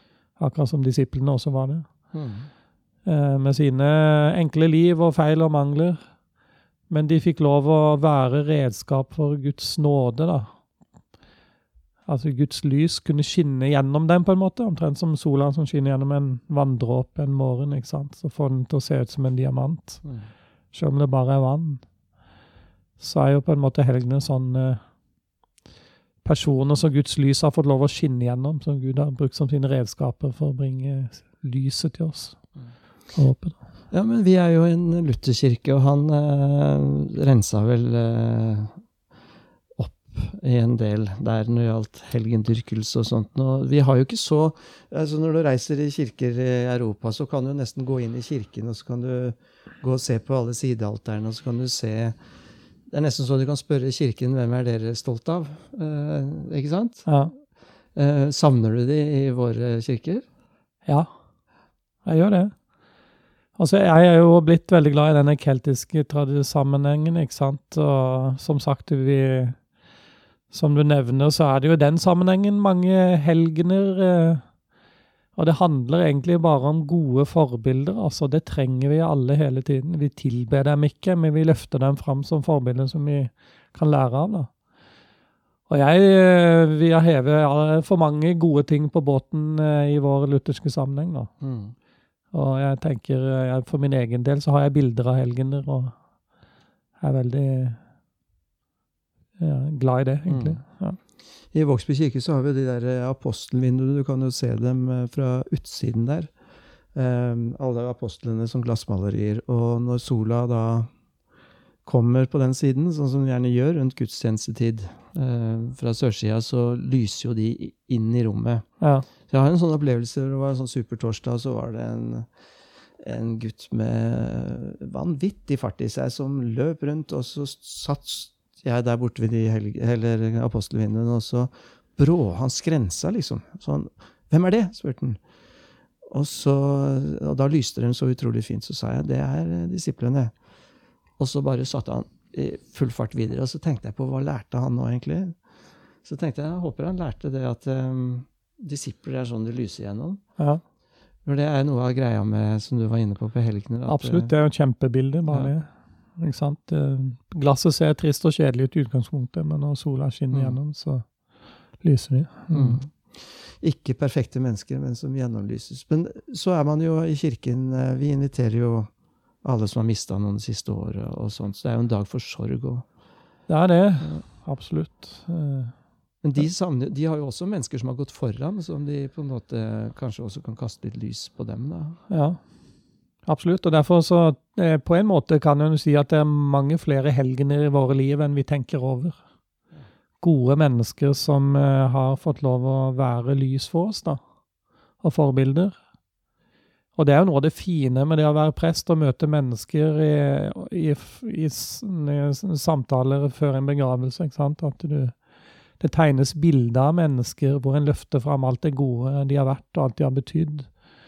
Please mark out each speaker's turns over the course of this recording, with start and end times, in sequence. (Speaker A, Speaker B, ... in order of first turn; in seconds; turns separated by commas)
Speaker A: 0.4-1.9, Speaker B: 2.1-2.5, Speaker A: 3.0-6.0, Speaker A: 6.9-10.5, Speaker A: 12.1-20.1, Speaker B: 20.0-20.3, Speaker A: 20.7-21.8, Speaker A: 23.0-24.8, Speaker A: 26.2-32.5, Speaker A: 33.1-33.6, Speaker B: 33.9-38.8, Speaker B: 39.8-52.2, Speaker B: 52.9-57.1, Speaker A: 57.1-57.3, Speaker B: 58.0-60.3, Speaker A: 62.0-62.6, Speaker A: 63.6-69.6, Speaker A: 70.5-74.5, Speaker A: 75.4-84.5, Speaker A: 85.7-91.3, Speaker B: 91.4-91.8, Speaker A: 92.3-96.0, Speaker A: 97.0-97.8, Speaker A: 99.4-101.0, Speaker B: 100.3-100.6, Speaker B: 101.5-106.3, Speaker B: 106.9-110.9, Speaker B: 111.8-122.3, Speaker A: 118.8-119.1, Speaker B: 123.0-135.2, Speaker B: 136.1-140.3, Speaker B: 141.2-145.4, Speaker B: 146.0-150.4, Speaker A: 150.4-150.6, Speaker B: 151.2-154.3, Speaker A: 153.9-161.1, Speaker B: 155.3-155.5, Speaker B: 160.3-160.6, Speaker A: 161.8-162.8, Speaker B: 162.5-168.9, Speaker B: 169.4-172.9, Speaker A: 173.5-175.7, Speaker B: 176.2-182.0, Speaker A: 182.1-182.5, Speaker A: 183.2-189.2, Speaker A: 190.2-194.2, Speaker A: 195.0-195.8, Speaker A: 197.0-205.2, Speaker A: 205.8-210.7